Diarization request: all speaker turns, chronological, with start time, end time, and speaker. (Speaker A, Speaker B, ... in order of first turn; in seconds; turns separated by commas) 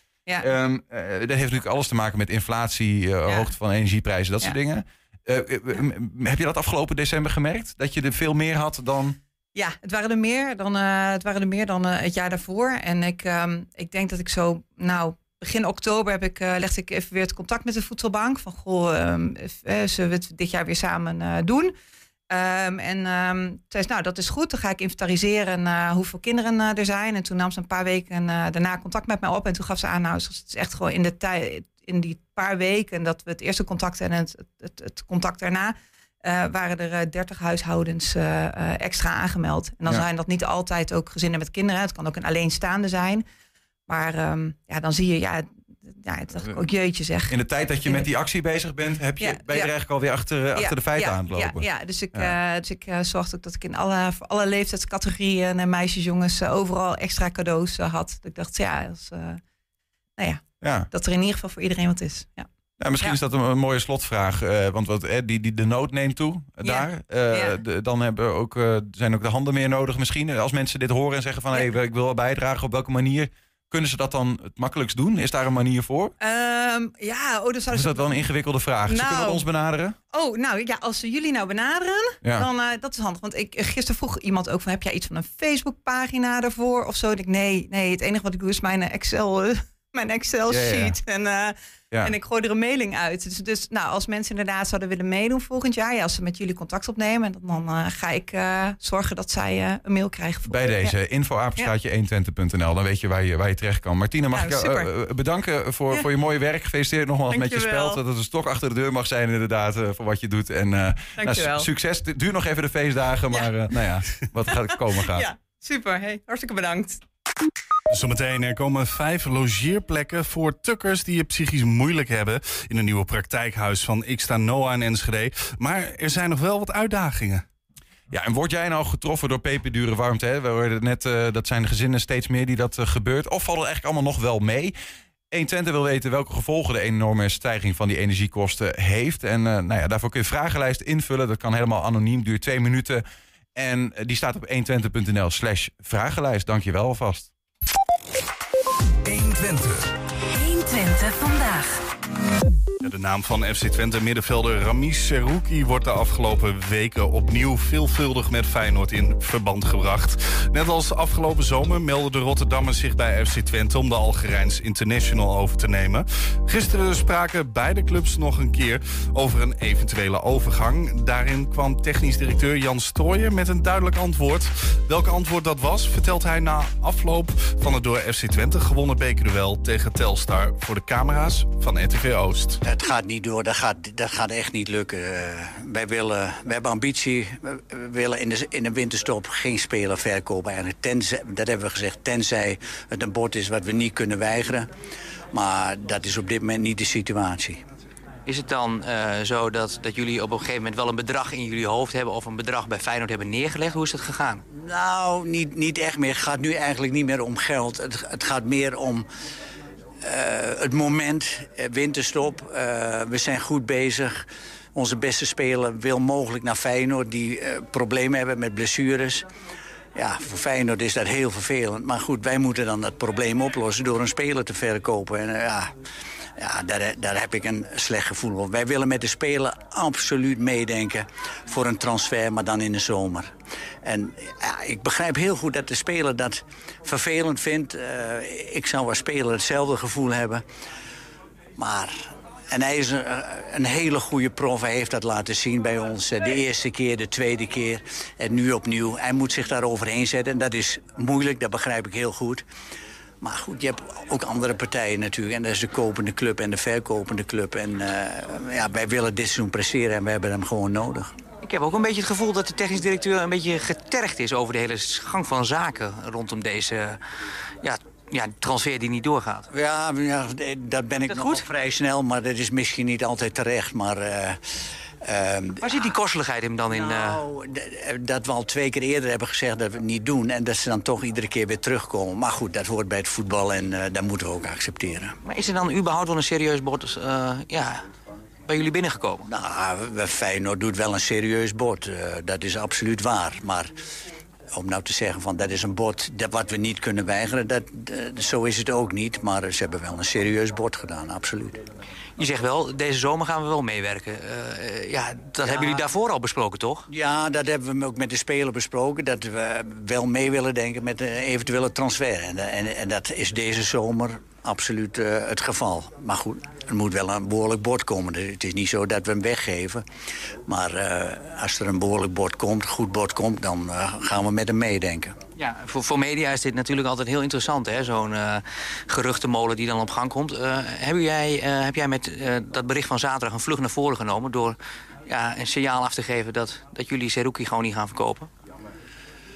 Speaker A: 0.4-9.2, Speaker B: 9.5-21.7, Speaker B: 22.3-43.2, Speaker B: 43.9-48.1, Speaker A: 47.3-52.3, Speaker B: 49.2-49.7, Speaker B: 50.5-59.4, Speaker B: 60.2-62.5, Speaker A: 60.6-60.9, Speaker A: 62.8-76.1, Speaker B: 66.6-67.6, Speaker B: 76.2-78.2, Speaker A: 77.7-80.0, Speaker B: 78.9-79.4, Speaker B: 80.1-100.9, Speaker A: 90.5-90.9, Speaker A: 100.5-115.2, Speaker B: 104.3-104.9, Speaker B: 107.3-108.0, Speaker B: 111.2-111.7, Speaker B: 114.5-117.0, Speaker C: 117.9-127.4, Speaker A: 128.1-134.8, Speaker A: 135.3-143.0, Speaker A: 143.5-147.3, Speaker D: 149.1-149.5, Speaker D: 150.2-151.8, Speaker C: 152.8-182.6, Speaker E: 182.6-194.7, Speaker E: 195.3-197.6, Speaker F: 198.2-204.4, Speaker E: 204.5-209.1, Speaker E: 210.0-219.2, Speaker E: 219.9-225.7, Speaker E: 226.4-233.3, Speaker E: 233.8-240.4, Speaker E: 241.6-252.4, Speaker E: 253.2-261.1, Speaker F: 261.4-267.0, Speaker F: 267.6-269.5, Speaker E: 269.5-274.4, Speaker F: 271.1-271.5, Speaker E: 275.0-275.9, Speaker F: 275.6-277.2, Speaker E: 276.7-285.2, Speaker F: 285.2-287.8, Speaker F: 288.5-289.2, Speaker E: 289.3-293.7, Speaker E: 294.5-301.6, Speaker F: 302.2-306.9, Speaker E: 305.4-305.8, Speaker E: 306.9-319.8, Speaker E: 320.5-325.2, Speaker F: 325.4-338.3